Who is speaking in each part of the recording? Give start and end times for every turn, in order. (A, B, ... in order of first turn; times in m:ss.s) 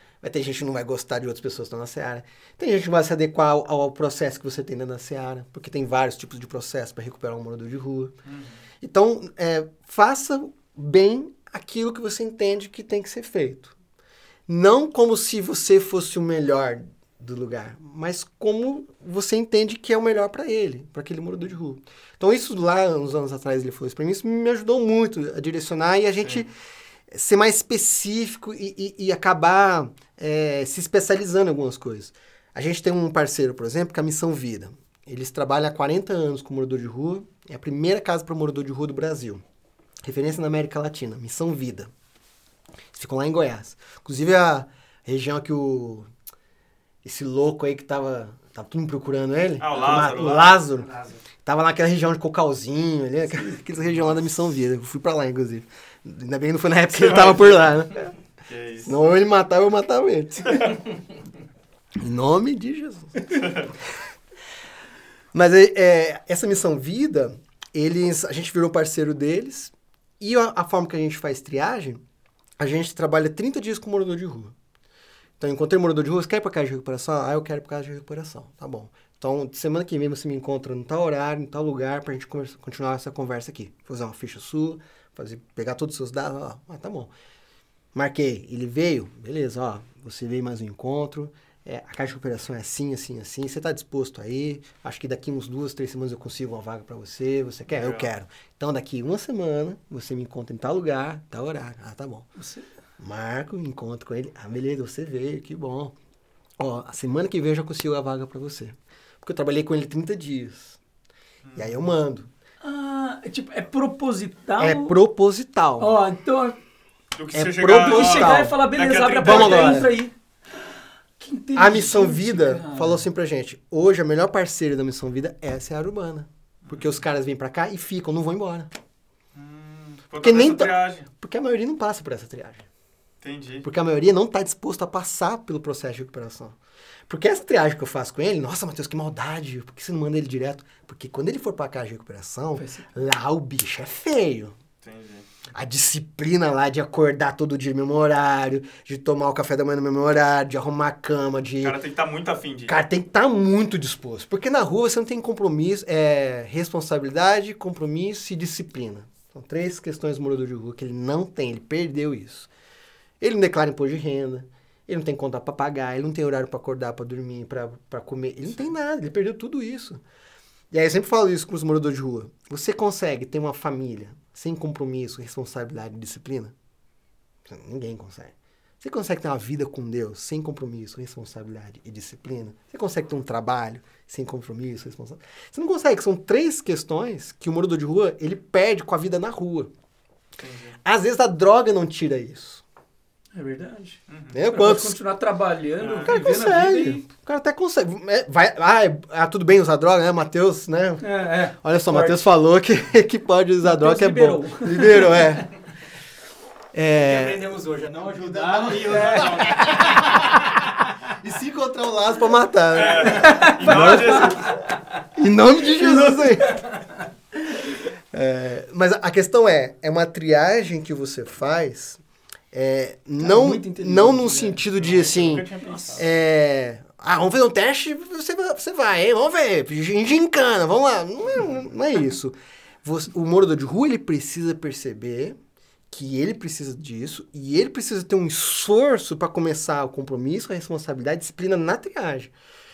0:00.2-0:08.2 A
0:08.3-0:08.6 B
0:08.8-0:13.7 A
0:14.5-0:26.5 A
0:27.1-0:39.4 A
0:40.0-0:41.9 A
0:42.9-0:46.1 A
0:47.0-0:50.9 A
0:49.6-0:50.6 B
0:49.7-0:51.2 C
0:51.4-0:58.1 A
0:56.9-0:57.9 B
0:58.5-0:59.0 B
0:58.8-1:00.7 A
1:00.4-1:00.7 B
1:02.0-1:04.0 A
1:03.3-1:03.7 B
1:05.3-1:12.0 A
1:12.6-1:14.6 A
1:15.4-1:27.1 A
1:27.9-1:42.3 A
1:37.7-1:38.1 B
1:42.4-1:42.7 D
1:43.0-1:46.0 A
1:46.6-1:50.8 A
1:51.4-1:51.8 B
1:51.6-1:52.3 A
1:52.6-1:55.0 D
1:54.6-1:55.9 A
1:55.8-1:56.6 D
1:57.2-1:59.9 B
1:57.3-1:58.6 A
1:57.7-2:00.1 D
1:59.2-1:59.9 A
2:01.2-2:03.0 D
2:01.6-2:08.7 A
2:06.6-2:06.9 B
2:09.3-2:11.1 B
2:10.2-2:12.7 A
2:13.2-2:13.7 B
2:13.6-2:16.6 A
2:17.1-2:24.6 A
2:22.6-2:22.9 D
2:24.8-2:25.2 B
2:25.5-2:31.8 A
2:31.6-2:32.8 B
2:32.7-2:42.5 A
2:43.2-2:50.0 A
2:50.7-2:56.5 A
2:57.5-3:09.7 A
3:10.4-3:10.8 B
3:10.8-3:12.6 A
3:13.3-3:17.0 D
3:14.1-3:14.4 B
3:14.3-3:15.0 A
3:15.8-3:16.2 B
3:16.0-3:25.5 A
3:21.0-3:22.2 D
3:23.6-3:25.3 D
3:26.7-3:27.4 A
3:27.0-3:30.7 C
3:28.3-3:29.3 B
3:28.8-3:29.9 A
3:28.9-3:29.7 D
3:31.2-3:34.4 A
3:32.7-3:34.6 B
3:33.1-3:34.3 D
3:35.2-3:36.6 A
3:36.5-3:36.8 C
3:37.5-3:42.0 A
3:42.5-3:55.4 A
3:43.2-3:44.6 D
3:44.7-3:46.0 B
3:45.6-3:46.0 C
3:45.7-3:46.0 D
3:55.9-4:02.3 A